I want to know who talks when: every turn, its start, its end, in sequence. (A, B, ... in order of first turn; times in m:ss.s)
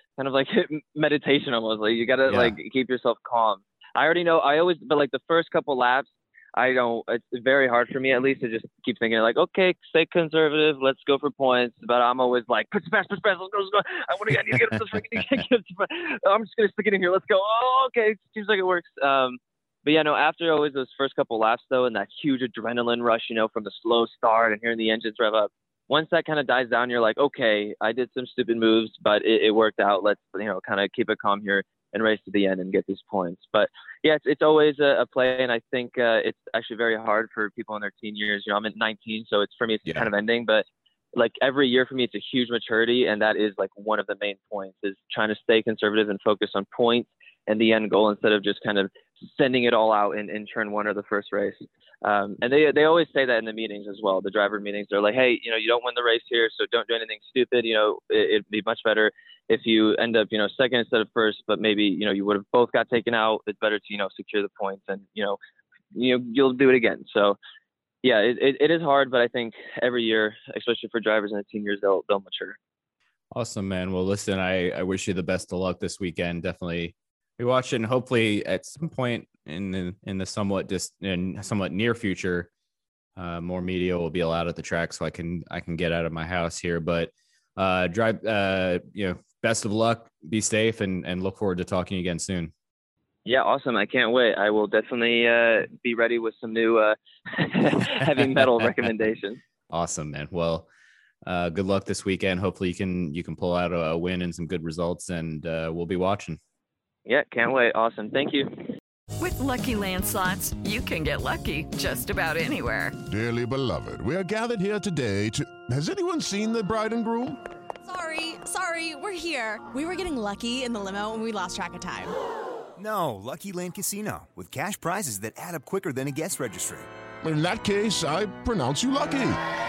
0:00.2-1:05.4 A
0:02.3-0:02.6 B
1:05.9-1:07.4 A
1:08.0-1:12.6 A
1:13.3-1:22.5 B
1:23.2-1:32.5 B
1:33.2-1:39.4 A
1:39.7-1:40.7 B
1:41.2-1:46.4 B
1:47.0-1:48.5 A
1:49.2-1:52.9 C
1:53.1-1:57.4 D
1:57.8-2:02.1 E
2:02.8-2:06.9 F
2:07.2-2:09.4 D